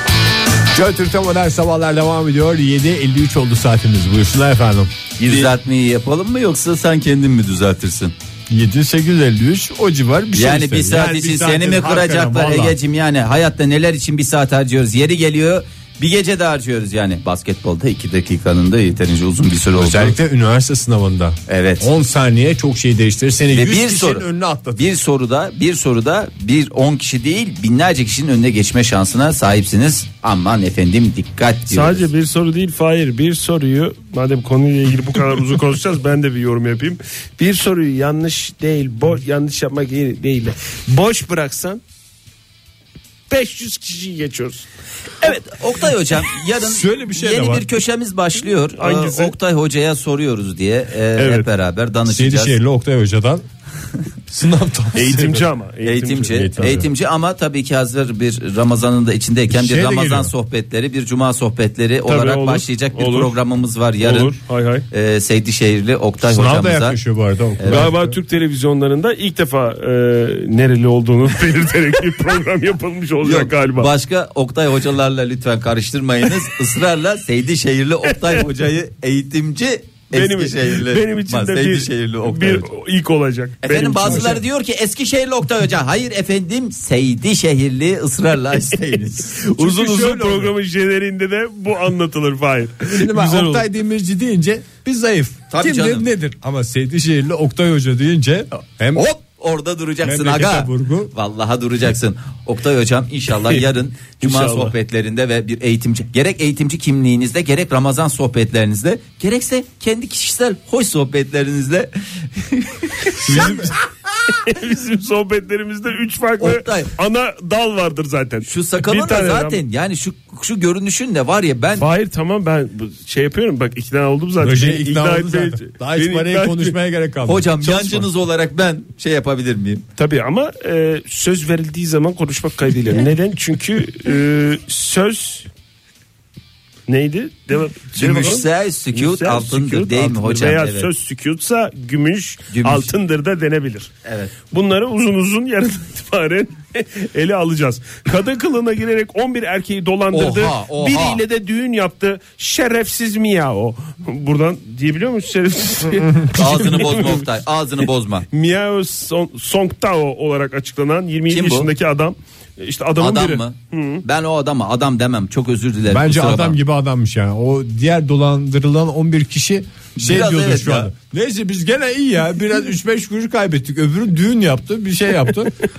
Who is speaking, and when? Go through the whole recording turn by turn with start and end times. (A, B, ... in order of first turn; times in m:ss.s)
0:00.7-0:05.5 A
0:05.2-0:08.1 B
0:08.5-0:12.8 A
0:10.4-0:20.2 B
0:19.7-0:24.9 A
0:21.5-0:21.9 B
0:23.5-0:32.1 B
0:31.7-0:41.8 C
0:43.3-0:44.7 C
0:45.2-0:52.6 B
0:46.6-0:47.7 A
0:48.8-0:49.4 C
0:51.2-0:51.5 C
0:52.0-0:53.4 A
0:54.3-0:55.5 A
0:54.9-0:56.4 C
0:55.8-1:04.4 B
0:56.3-0:56.9 A
0:59.5-1:00.3 A
1:02.1-1:03.4 C
1:04.0-1:04.9 C
1:04.9-1:07.0 B
1:06.2-1:08.2 A
1:07.6-1:07.9 B
1:07.7-1:13.9 C
1:13.2-1:22.7 B
1:20.1-1:24.3 C
1:23.6-1:29.4 B
1:24.0-1:24.4 A
1:29.4-1:33.7 C
1:29.6-1:30.5 A
1:32.9-1:39.1 A
1:35.5-1:36.1 B
1:39.0-1:53.7 B
1:40.0-1:41.1 A
1:44.2-1:44.7 C
1:53.2-1:53.7 A
1:53.3-1:53.7 C
1:54.3-1:59.6 C
1:56.4-1:56.9 B
1:58.4-2:01.9 B
2:01.8-2:06.8 C
2:04.4-2:08.1 A
2:07.3-2:09.8 B
2:10.0-2:15.5 C
2:16.9-2:23.9 C
2:18.0-2:20.9 B
2:22.5-2:22.9 B
2:24.0-2:24.3 B
2:24.5-2:37.3 C
2:30.1-2:31.2 B
2:36.3-2:38.3 B
2:38.3-2:44.0 C
2:41.3-2:41.7 B
2:43.0-2:46.6 B
2:45.9-2:55.5 A
2:50.0-2:50.9 B